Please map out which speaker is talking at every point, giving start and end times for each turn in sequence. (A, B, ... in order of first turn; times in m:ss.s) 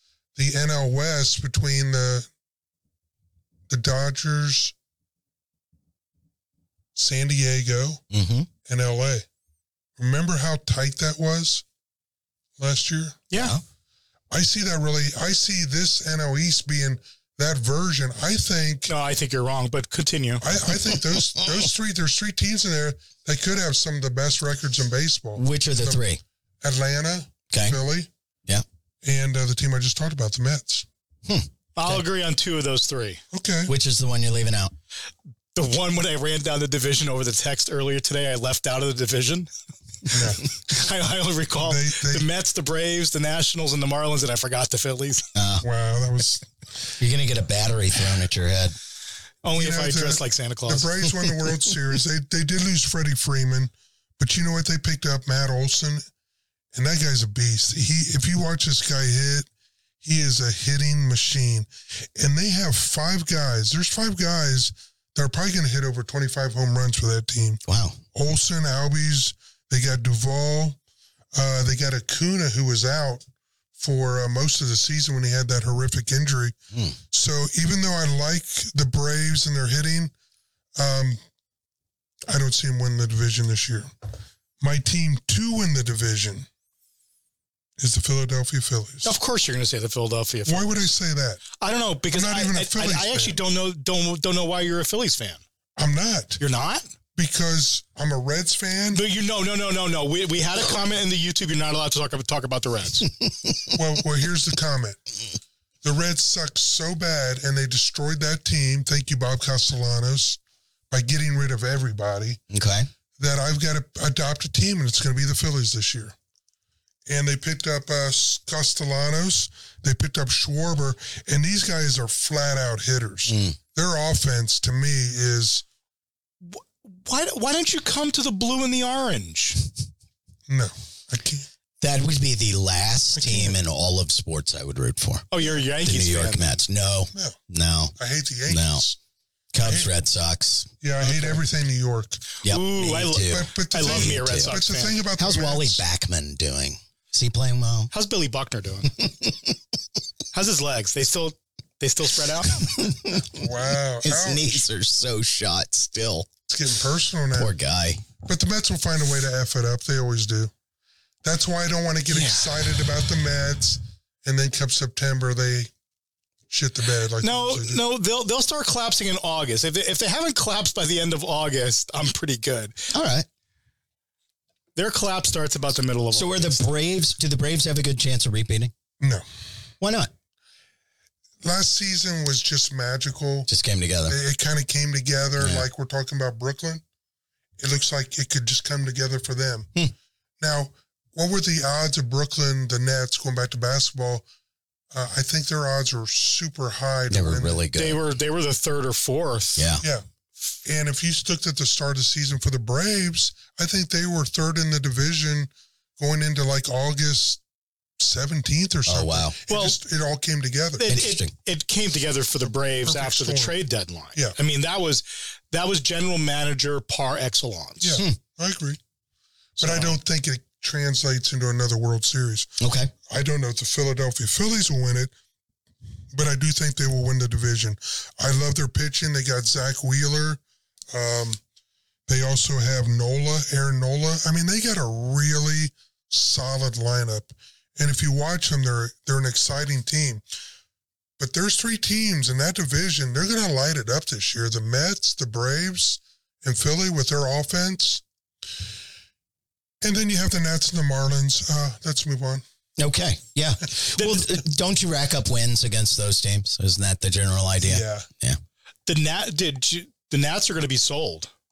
0:00.4-0:02.3 A
0:03.7-0:04.7 A
0:07.0-0:08.0 A
0:08.1-0:08.5 B
0:08.7-0:09.3 A
0:10.0-0:11.6 A
0:12.6-0:13.2 A
0:13.3-0:13.6 C
0:13.3-0:13.6 B
0:14.3-0:18.9 A
0:18.9-0:20.4 C
0:20.4-0:26.0 A
0:20.7-0:21.7 B
0:25.4-0:26.2 B
0:26.6-0:28.1 A
0:27.5-0:27.8 B
0:29.0-0:30.9 A
0:31.3-0:32.0 B
0:31.8-0:33.2 C
0:33.3-0:33.7 A
0:33.7-0:34.7 B
0:35.6-0:39.5 C
0:40.1-0:40.4 A
0:40.4-0:45.3 C
0:41.6-0:42.3 A
0:45.4-0:45.6 B
0:45.6-0:46.5 A
0:47.0-0:48.8 B
0:49.4-0:50.9 C
0:49.6-0:56.0 A
0:56.7-0:59.5 A
1:00.0-1:07.6 A
1:07.7-1:08.0 B
1:08.1-1:10.8 A
1:11.3-1:13.2 A
1:13.8-1:16.6 A
1:17.1-1:20.1 A
1:20.8-1:21.2 A
1:22.3-1:23.9 A
1:24.6-1:26.5 A
1:27.8-1:29.1 A
1:29.0-1:30.9 C
1:30.5-1:31.4 A
1:31.6-1:35.4 C
1:32.1-1:33.4 A
1:35.8-1:36.4 A
1:36.4-1:36.8 C
1:37.2-1:39.0 A
1:39.0-1:43.1 C
1:43.2-1:43.7 B
1:43.7-1:45.1 A
1:45.8-1:50.4 A
1:50.9-1:52.4 A
1:52.5-1:52.9 B
1:53.2-1:56.2 A
1:57.1-2:05.6 A
2:03.3-2:03.6 B
2:06.4-2:09.7 C
2:10.5-2:11.5 A
2:11.8-2:15.3 B
2:13.2-2:13.6 A
2:15.3-2:16.6 C
2:15.8-2:18.0 B
2:18.0-2:19.0 A
2:18.5-2:18.8 B
2:19.5-2:20.7 B
2:19.6-2:19.9 A
2:20.8-2:22.2 A
2:22.4-2:24.6 B
2:22.4-2:25.0 C
2:23.2-2:25.8 A
2:25.2-2:27.9 B
2:27.9-2:29.0 C
2:29.0-2:29.6 B
2:30.3-2:32.7 C
2:32.4-2:33.5 B
2:33.3-2:34.7 A
2:34.0-2:36.3 B
2:36.5-2:37.5 A
2:37.3-2:38.0 B
2:38.2-2:40.5 A
2:41.2-2:45.7 A
2:42.1-2:42.8 C
2:46.5-2:47.8 A
2:47.2-2:52.9 C
2:52.9-2:53.3 B
2:54.8-2:56.6 C
2:56.1-2:58.7 B
2:59.8-3:00.1 B
3:01.4-3:03.5 A
3:03.5-3:04.2 B
3:04.1-3:06.8 A
3:05.4-3:05.7 B
3:07.6-3:09.7 A
3:10.4-3:14.2 A
3:14.9-3:17.7 A
3:17.1-3:18.0 B
3:17.8-3:19.7 C
3:19.6-3:19.8 B
3:20.6-3:27.4 A
3:28.0-3:30.9 A
3:28.9-3:29.4 B
3:29.5-3:29.8 C
3:30.8-3:38.0 C
3:30.8-3:31.3 B
3:32.8-3:33.6 A
3:37.8-3:38.8 A
3:39.6-3:42.6 A
3:39.6-3:40.0 C
3:42.6-3:42.9 B
3:43.1-3:45.1 A
3:46.1-3:50.4 A
3:50.9-3:51.4 A
3:52.1-4:00.2 A
4:01.2-4:08.0 A
4:09.8-4:12.4 A
4:12.8-4:18.4 B
4:14.0-4:14.2 C
4:17.6-4:18.1 A
4:18.9-4:21.3 C